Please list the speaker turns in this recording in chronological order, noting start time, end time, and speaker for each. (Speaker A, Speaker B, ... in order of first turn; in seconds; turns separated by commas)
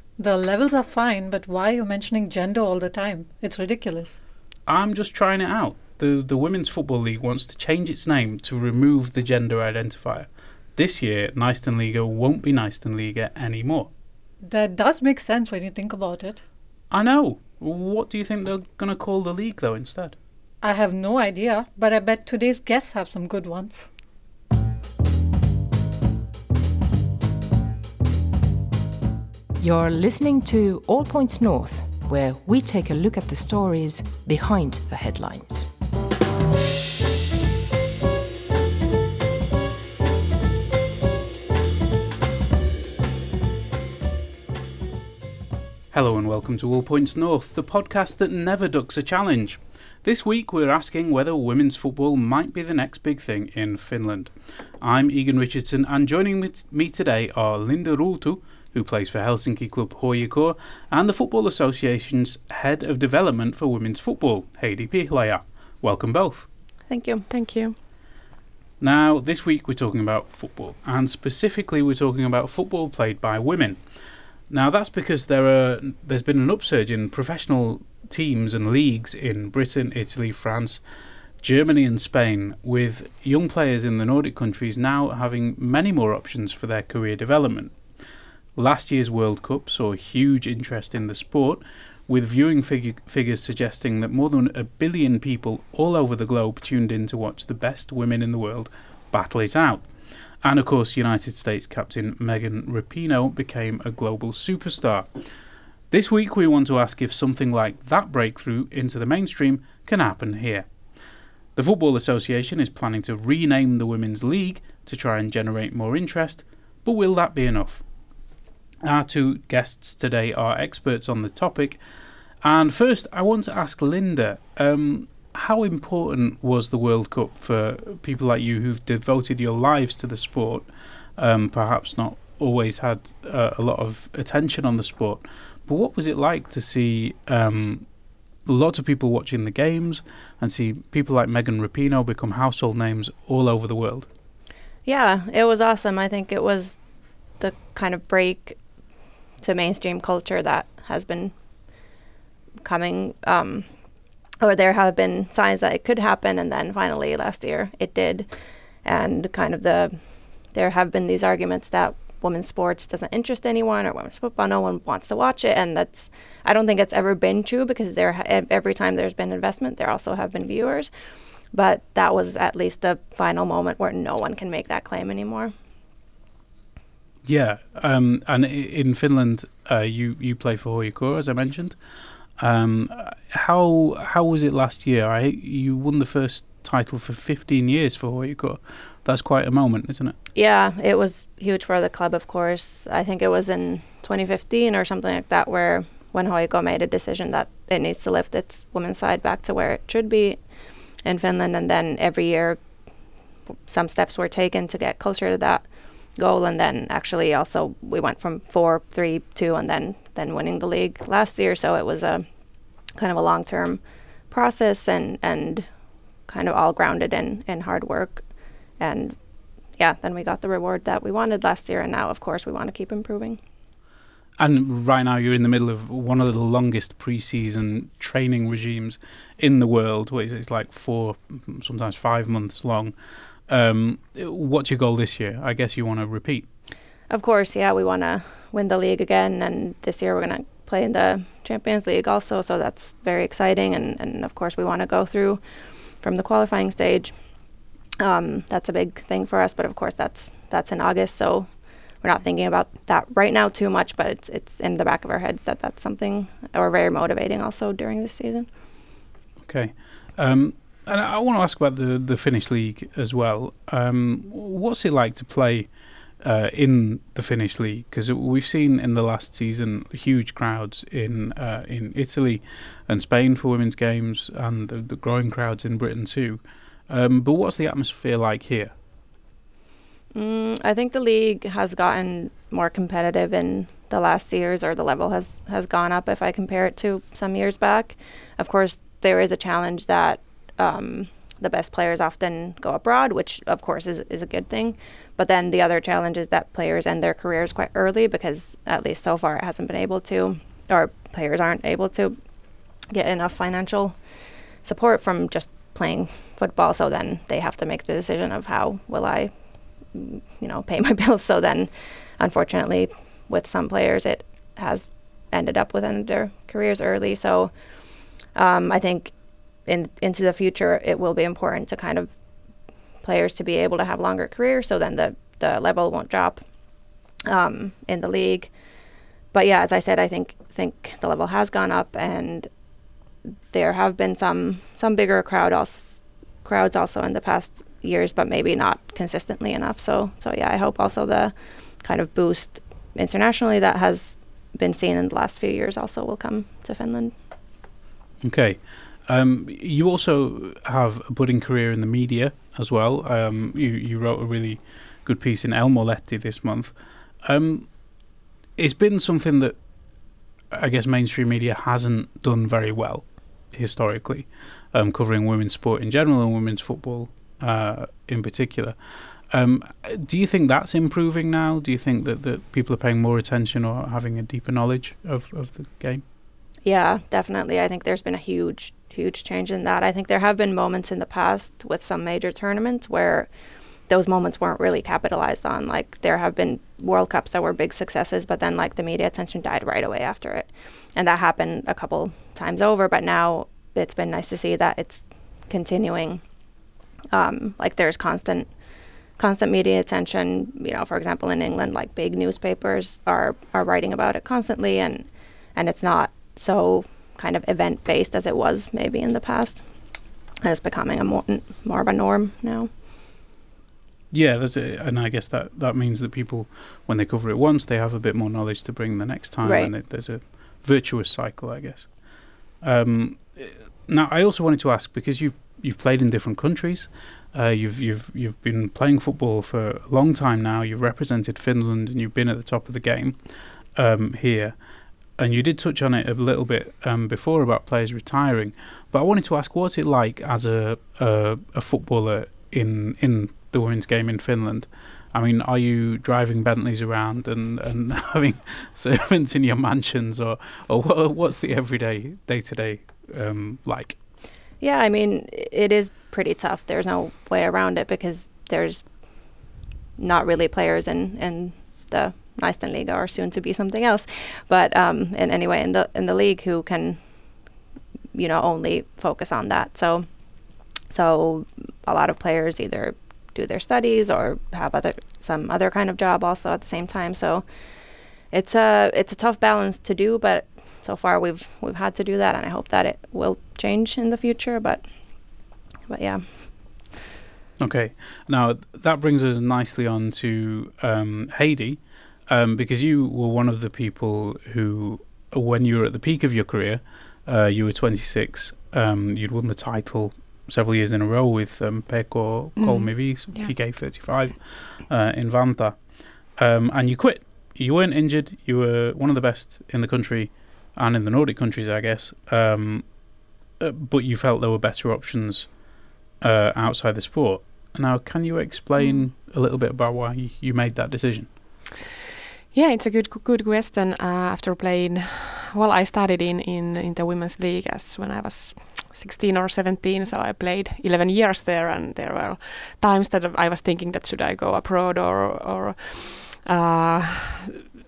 Speaker A: 0.2-4.2, Speaker B: 4.7-13.9, Speaker A: 14.4-16.4, Speaker B: 16.9-20.2, Speaker A: 20.6-23.9, Speaker C: 29.6-35.7, Speaker B: 45.9-66.5, Speaker D: 66.9-67.3, Speaker E: 67.3-67.7, Speaker B: 68.8-73.8, Speaker B: 74.5-80.8, Speaker B: 81.4-87.7, Speaker B: 88.6-99.9, Speaker B: 100.4-105.1, Speaker B: 105.9-110.7, Speaker B: 111.5-117.8, Speaker B: 118.8-121.8, Speaker B: 122.4-137.9, Speaker B: 138.4-144.1, Speaker D: 144.8-146.8, Speaker D: 147.4-148.6, Speaker D: 149.4-151.3, Speaker D: 152.6-153.7, Speaker D: 154.4-158.3, Speaker D: 158.8-160.0, Speaker D: 160.5-170.9, Speaker D: 171.5-175.5, Speaker B: 177.2-181.8, Speaker B: 182.4-190.1, Speaker D: 190.3-200.4, Speaker D: 201.0-202.6, Speaker D: 203.7-212.3, Speaker D: 213.0-215.7, Speaker D: 216.3-218.2, Speaker D: 218.8-219.2, Speaker D: 219.8-223.4, Speaker B: 224.4-232.9, Speaker B: 233.5-236.5, Speaker D: 237.1-245.4, Speaker D: 246.0-247.1, Speaker D: 248.0-258.5, Speaker B: 259.4-278.7, Speaker D: 280.1-302.2, Speaker D: 302.9-304.0, Speaker D: 304.6-309.3, Speaker D: 309.9-317.5, Speaker D: 318.3-319.1, Speaker D: 319.6-322.1, Speaker D: 323.0-326.4, Speaker D: 327.3-328.5, Speaker D: 329.3-332.5, Speaker D: 333.5-347.1, Speaker B: 348.2-357.9, Speaker B: 358.6-359.6, Speaker B: 360.5-368.8, Speaker B: 369.3-376.0, Speaker D: 376.6-383.3, Speaker D: 383.9-396.2, Speaker D: 397.1-398.5, Speaker D: 399.2-409.6, Speaker D: 410.4-412.7, Speaker B: 414.1-422.0, Speaker D: 419.4-419.7, Speaker B: 422.6-434.6, Speaker B: 435.2-454.0, Speaker D: 454.6-458.9, Speaker D: 460.0-467.0, Speaker D: 468.1-470.1, Speaker D: 470.9-477.4, Speaker D: 478.3-484.9, Speaker D: 485.9-486.9, Speaker B: 487.6-513.0, Speaker E: 502.6-503.5, Speaker B: 513.6-515.6, Speaker B: 516.2-521.3, Speaker E: 518.8-519.0, Speaker E: 522.5-537.6